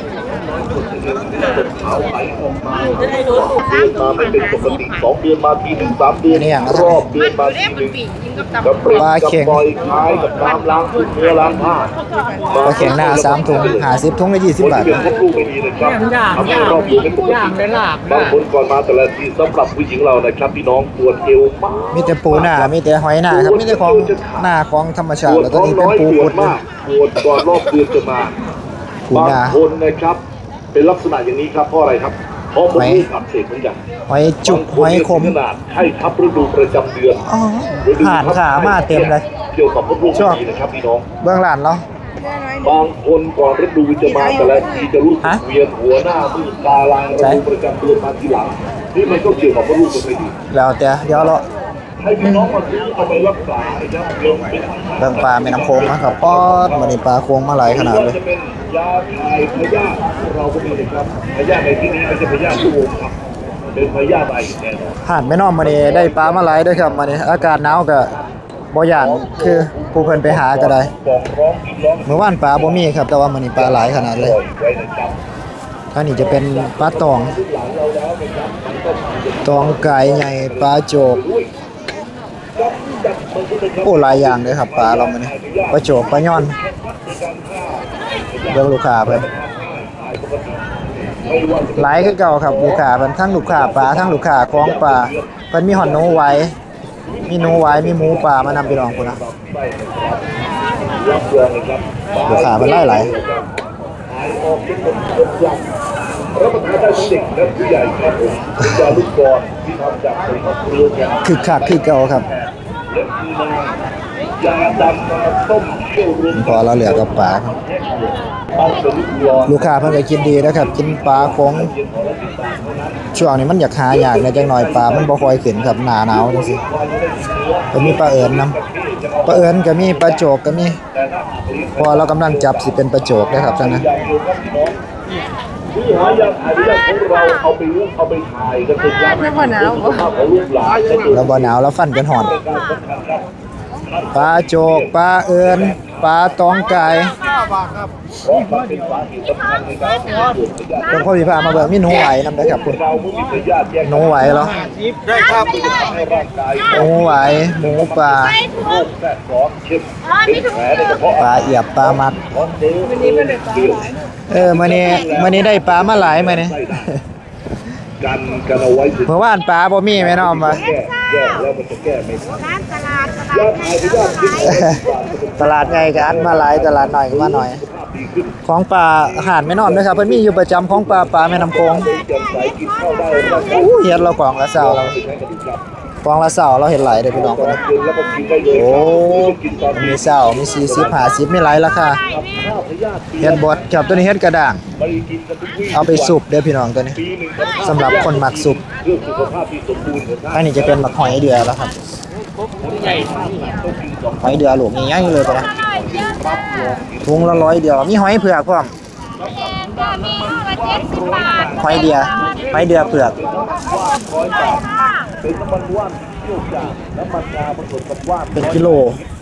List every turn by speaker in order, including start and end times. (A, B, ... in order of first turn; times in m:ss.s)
0:00.4-0:08.0 A
0:03.1-0:04.9 B
0:06.3-0:07.1 C
0:07.8-0:08.6 B
0:08.6-0:11.9 A
0:08.9-0:09.6 C
0:12.1-0:12.6 B
0:12.5-0:13.9 A
0:12.6-0:15.0 C
0:14.6-0:22.7 A
0:16.3-0:17.6 B
0:21.9-0:26.6 C
0:23.3-0:24.4 A
0:25.2-0:28.4 A
0:29.1-0:29.6 C
0:29.1-0:30.2 A
0:30.7-0:33.8 A
0:32.8-0:33.1 C
0:34.1-0:35.4 C
0:34.4-0:37.2 A
0:37.2-0:39.2 C
0:37.8-0:41.0 A
0:40.1-0:40.4 C
0:41.2-0:41.8 C
0:42.2-0:42.6 B
0:42.6-0:50.4 A
0:50.5-0:51.4 C
0:52.0-0:57.0 A
0:55.0-0:58.2 C
0:57.6-1:03.2 A
1:03.7-1:05.0 A
1:05.0-1:08.1 C
1:05.6-1:07.4 A
1:08.7-1:10.9 C
1:09.0-1:12.8 A
1:12.0-1:14.4 C
1:13.6-1:15.2 A
1:15.9-1:17.4 C
1:16.2-1:21.5 A
1:19.4-1:21.2 C
1:22.6-1:32.8 A
1:23.8-1:26.5 C
1:28.5-1:29.2 C
1:31.8-1:36.5 C
1:33.4-1:36.4 A
1:37.1-1:43.5 A
1:37.3-1:39.2 C
1:42.2-1:43.1 C
1:44.1-1:45.7 A
1:46.3-1:53.8 A
1:48.6-1:48.9 C
1:51.2-1:52.2 C
1:54.4-2:03.1 A
1:56.3-1:57.5 C
1:59.4-2:01.7 C
2:03.1-2:06.6 C
2:03.9-2:05.5 A
2:06.1-2:10.2 A
2:07.7-2:08.5 C
2:09.2-2:10.8 C
2:10.9-2:14.8 A
2:11.8-2:13.8 C
2:15.7-2:21.5 A
2:21.1-2:22.3 C
2:22.2-2:23.3 A
2:23.9-2:24.9 A
2:24.1-2:27.2 C
2:25.5-2:25.8 A
2:28.2-2:31.2 A
2:30.9-2:32.8 C
2:32.3-2:34.3 A
2:33.8-2:34.7 C
2:35.1-2:46.9 A
2:36.7-2:38.4 C
2:41.2-2:42.2 C
2:43.2-2:43.7 B
2:44.3-2:47.0 C
2:48.0-2:49.1 A
2:49.1-2:50.6 C
2:50.0-2:52.4 A
2:52.5-2:54.6 B
2:53.3-2:58.4 A
2:55.4-2:57.6 C
2:58.4-3:01.9 C
2:59.0-3:05.6 A
3:03.4-3:05.0 C
3:06.0-3:07.6 C
3:07.1-3:11.2 A
3:08.5-3:12.0 C
3:12.1-3:13.8 A
3:13.2-3:14.6 C
3:14.8-3:16.2 A
3:15.7-3:17.0 C
3:17.0-3:20.8 A
3:17.6-3:18.6 C
3:20.3-3:21.7 C
3:22.6-3:27.0 A
3:24.2-3:25.5 C
3:27.0-3:28.7 C
3:29.2-3:34.7 A
3:31.6-3:33.2 C
3:35.2-3:39.0 A
3:38.3-3:39.0 C